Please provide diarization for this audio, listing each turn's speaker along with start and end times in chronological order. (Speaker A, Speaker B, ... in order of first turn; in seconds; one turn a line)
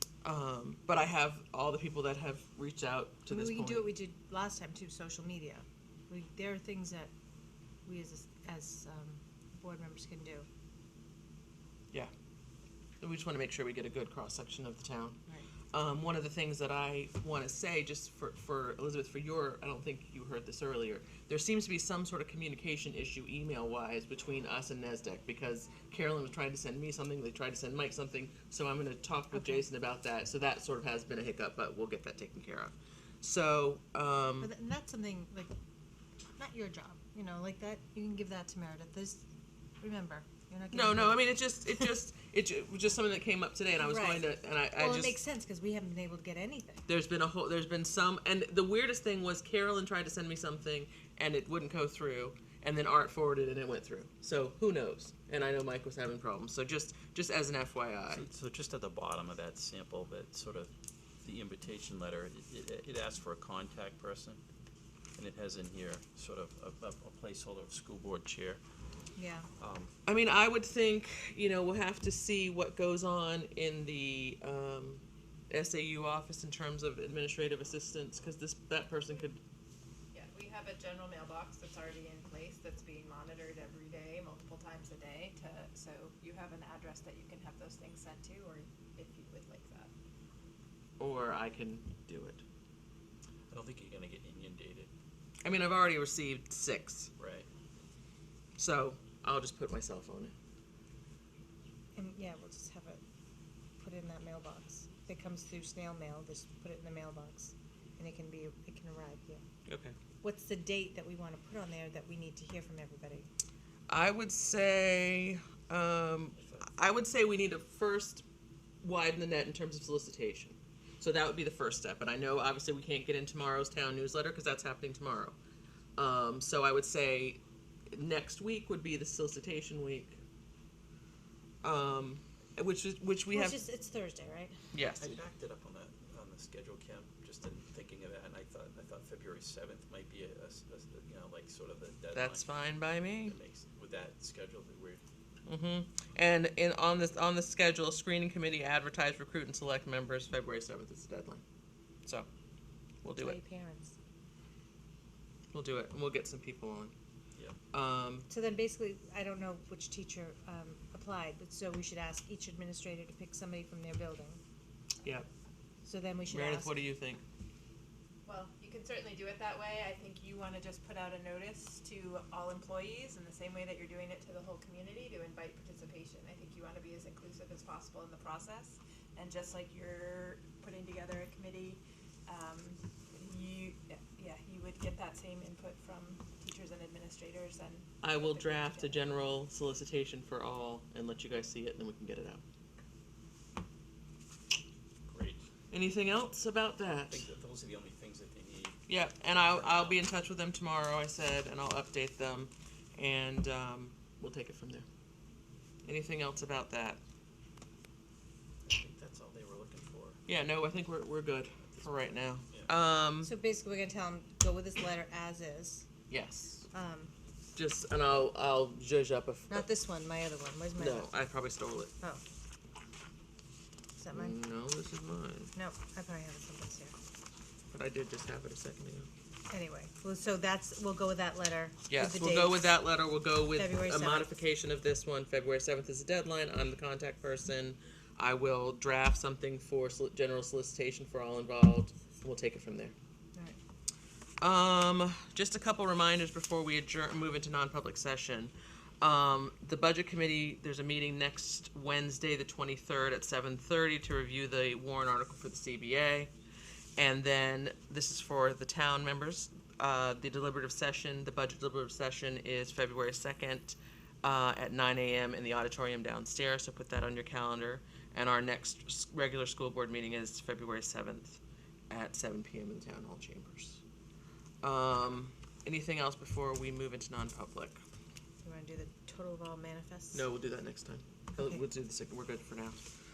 Speaker A: 0.2-3.9
Speaker B: 3.3-7.1
Speaker B: 7.8-10.5
Speaker A: 13.0-15.2
Speaker A: 15.7-34.5
Speaker B: 29.3-29.6
Speaker B: 34.4-35.5
Speaker B: 36.4-39.2
Speaker B: 39.8-41.9
Speaker A: 40.7-45.2
Speaker B: 43.8-46.9
Speaker A: 46.9-58.2
Speaker C: 58.1-60.7
Speaker C: 61.2-64.4
Speaker C: 65.2-68.6
Speaker B: 69.1-69.5
Speaker C: 69.6-69.9
Speaker A: 70.0-79.4
Speaker D: 80.1-89.9
Speaker A: 91.0-92.4
Speaker C: 93.5-94.9
Speaker A: 95.4-97.1
Speaker C: 97.2-97.5
Speaker A: 98.6-100.3
Speaker B: 102.0-103.0
Speaker B: 103.8-109.4
Speaker A: 109.7-109.9
Speaker B: 110.2-113.3
Speaker A: 113.9-118.2
Speaker C: 116.4-116.7
Speaker A: 118.8-125.3
Speaker A: 126.0-127.4
Speaker A: 127.9-130.2
Speaker A: 131.6-133.6
Speaker B: 133.3-134.5
Speaker A: 134.7-135.2
Speaker C: 135.0-145.0
Speaker A: 142.1-143.3
Speaker A: 145.4-151.4
Speaker A: 153.0-153.4
Speaker B: 153.2-153.9
Speaker A: 155.5-156.9
Speaker A: 157.7-158.3
Speaker B: 158.3-164.4
Speaker B: 165.8-166.8
Speaker A: 166.3-167.2
Speaker D: 168.2-189.4
Speaker A: 188.0-192.4
Speaker C: 195.1-195.4
Speaker A: 195.7-197.2
Speaker C: 197.1-198.8
Speaker A: 198.9-204.8
Speaker C: 199.4-200.0
Speaker A: 205.8-207.0
Speaker C: 208.6-210.2
Speaker A: 210.3-213.3
Speaker C: 211.7-212.7
Speaker B: 213.2-215.9
Speaker A: 216.1-216.7
Speaker B: 216.7-217.1
Speaker A: 217.6-219.7
Speaker B: 219.5-221.1
Speaker A: 220.8-221.9
Speaker B: 224.0-224.3
Speaker A: 224.1-225.5
Speaker B: 225.5-226.9
Speaker A: 227.7-229.1
Speaker B: 229.5-232.6
Speaker A: 231.9-242.9
Speaker B: 233.5-234.4
Speaker A: 244.4-256.3
Speaker A: 257.0-273.8
Speaker A: 274.6-277.8
Speaker B: 278.4-280.2
Speaker A: 280.1-282.8
Speaker B: 281.4-281.6